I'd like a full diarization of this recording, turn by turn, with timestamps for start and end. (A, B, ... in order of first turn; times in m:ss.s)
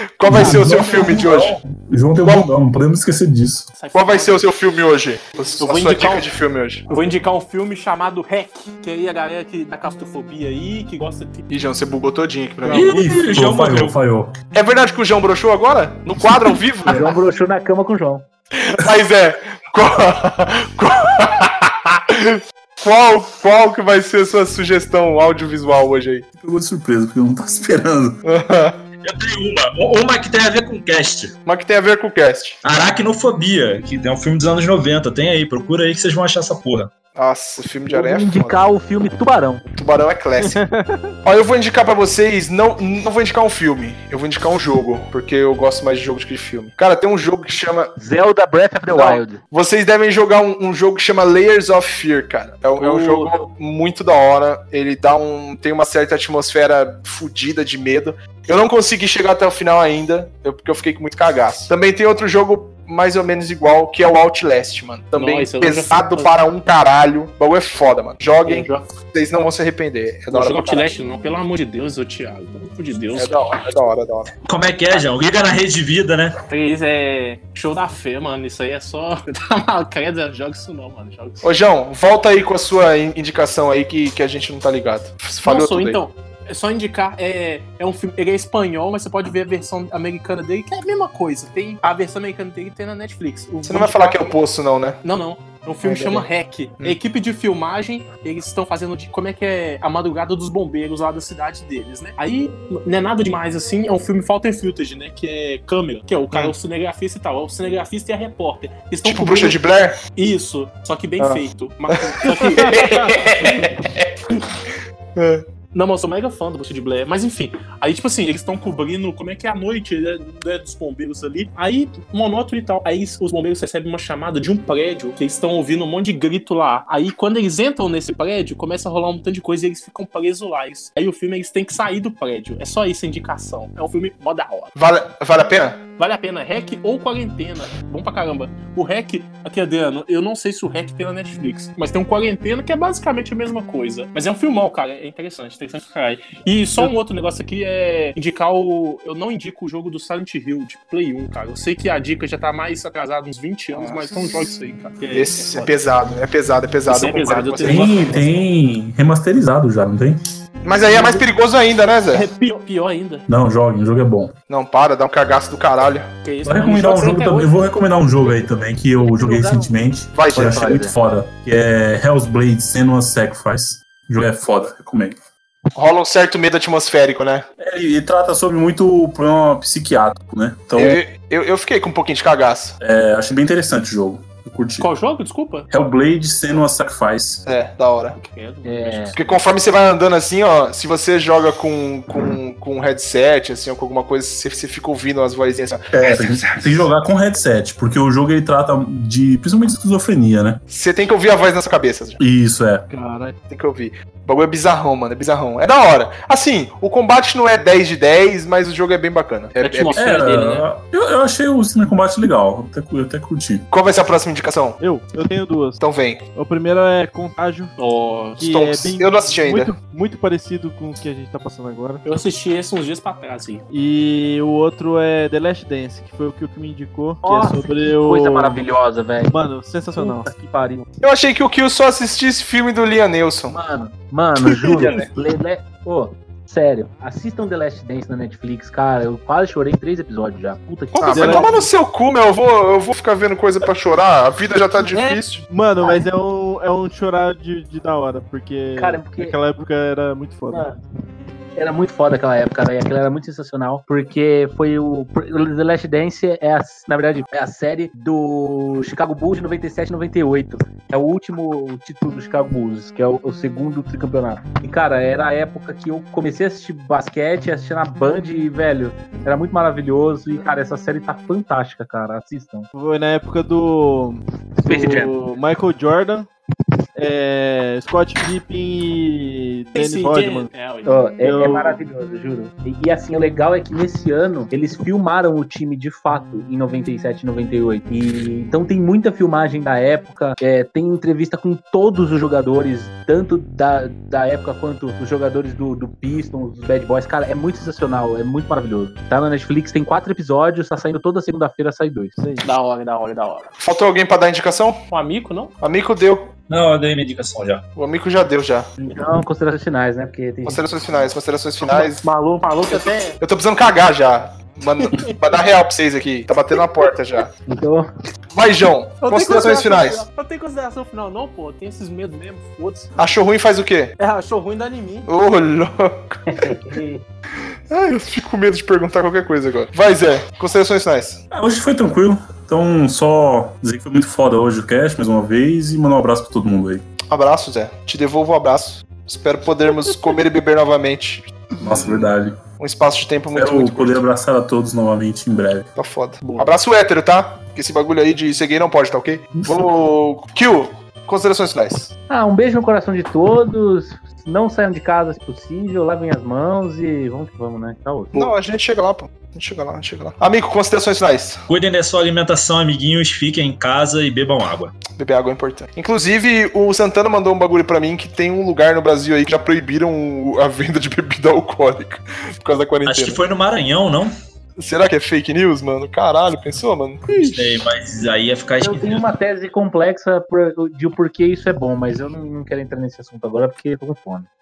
0:00.2-0:01.6 A
0:00.2-0:03.7 B
0:02.2-0:02.5 A
0:03.7-0:04.4 C
0:03.9-0:06.8 A
0:05.6-0:06.3 C
0:06.9-0:11.5 C
0:11.5-0:13.1 A
0:12.7-0:14.0 D
0:12.7-0:13.0 C
0:12.7-0:14.3 B
0:14.5-0:17.1 A
0:16.8-0:18.2 E
0:18.5-0:26.2 A
0:26.4-0:28.2 B
0:28.2-0:28.8 A
0:29.0-0:31.3 D
0:31.4-0:32.6 A
0:32.6-0:36.9 D
0:37.1-0:38.6 A
0:37.9-0:39.6 E
0:39.8-0:40.6 A
0:40.4-0:41.1 F
0:41.2-0:47.9 A
0:48.0-0:49.4 E
0:48.9-1:10.9 A
0:52.8-0:53.3 C
1:05.1-1:06.3 C
1:08.4-1:08.8 C
1:10.3-1:13.4 C
1:13.1-1:14.3 A
1:14.4-1:16.4 D
1:16.5-1:21.4 C
1:21.4-1:26.0 A
1:25.4-1:34.4 C
1:33.6-1:35.0 A
1:35.0-1:49.6 C
1:35.9-1:36.2 A
1:35.9-1:36.2 E
1:49.0-1:50.0 A
1:50.2-1:53.7 C
1:51.9-1:54.1 A
1:55.2-1:55.4 A
1:55.7-2:14.7 C
2:14.8-2:15.8 A
2:16.0-2:35.7 C
2:33.7-2:34.5 A
2:35.1-2:38.2 A
2:36.9-2:38.4 C
2:37.6-2:40.2 B
2:40.6-2:42.3 A
2:40.9-2:41.2 C
2:42.1-2:43.2 C
2:43.3-2:44.3 B
2:44.5-2:46.1 A
2:46.2-2:47.7 C
2:46.4-2:55.2 B
2:49.0-2:49.7 E
2:50.1-2:50.8 A
2:50.3-2:50.9 E
2:55.7-2:57.4 A
2:57.6-3:01.0 B
3:00.8-3:02.8 A
3:02.8-3:04.9 B
3:04.8-3:05.7 C
3:05.7-3:07.4 B
3:07.4-3:08.2 A
3:08.2-3:09.4 C
3:08.6-3:09.1 E
3:09.1-3:16.9 A
3:15.9-3:20.6 B
3:20.7-3:22.2 A
3:22.2-3:22.9 B
3:22.9-3:23.3 F
3:23.5-3:30.0 A
3:29.6-3:30.6 C
3:30.0-3:33.6 B
3:33.7-3:34.8 A
3:34.8-3:35.8 F
3:35.8-3:36.2 A
3:36.3-3:37.7 F
3:37.8-3:38.4 C
3:38.4-3:42.0 F
3:38.4-3:39.7 A
3:42.0-3:43.6 C
3:43.7-3:48.6 F
3:47.2-3:49.3 E
3:49.2-3:50.3 F
3:50.0-3:50.8 E
3:51.0-3:53.5 A
3:53.5-4:01.7 E
3:54.6-3:55.1 A
4:01.0-4:05.4 A
4:01.0-4:01.4 C
4:01.1-4:01.5 F
4:04.9-4:05.2 C
4:05.5-4:10.7 F
4:05.8-4:06.0 E
4:08.8-4:09.3 E
4:10.5-4:10.8 E
4:11.6-4:32.7 E
4:32.7-4:36.3 F
4:34.6-4:35.1 E
4:37.0-4:40.5 F
4:39.7-4:41.0 C
4:40.8-5:02.1 E
4:41.2-4:41.8 F
5:02.2-5:02.4 F
5:02.4-5:03.5 C
5:03.6-5:04.8 A
5:04.9-5:05.5 C
5:05.6-5:06.3 A
5:06.5-5:07.6 D
5:07.7-5:08.7 A
5:08.8-5:10.7 E
5:10.4-5:12.0 A
5:11.6-5:13.2 C
5:12.7-5:17.3 A
5:14.8-5:15.4 C
5:17.5-5:17.9 E
5:18.3-5:20.0 A
5:19.0-5:22.9 C
5:23.0-5:23.9 A
5:24.0-5:25.1 C
5:25.1-5:26.2 A
5:26.3-5:26.8 E
5:26.7-5:27.0 C
5:27.7-5:31.2 A
5:31.3-5:36.8 B
5:37.1-5:44.0 A
5:41.6-5:42.4 B
5:43.3-5:45.7 B
5:45.7-5:51.9 A
5:52.1-5:58.3 E
5:58.1-6:01.4 A
6:01.5-6:04.7 D
6:04.9-6:13.2 A
6:12.8-6:14.1 D
6:14.6-6:17.5 A
6:17.2-6:19.0 D
6:18.6-6:24.3 E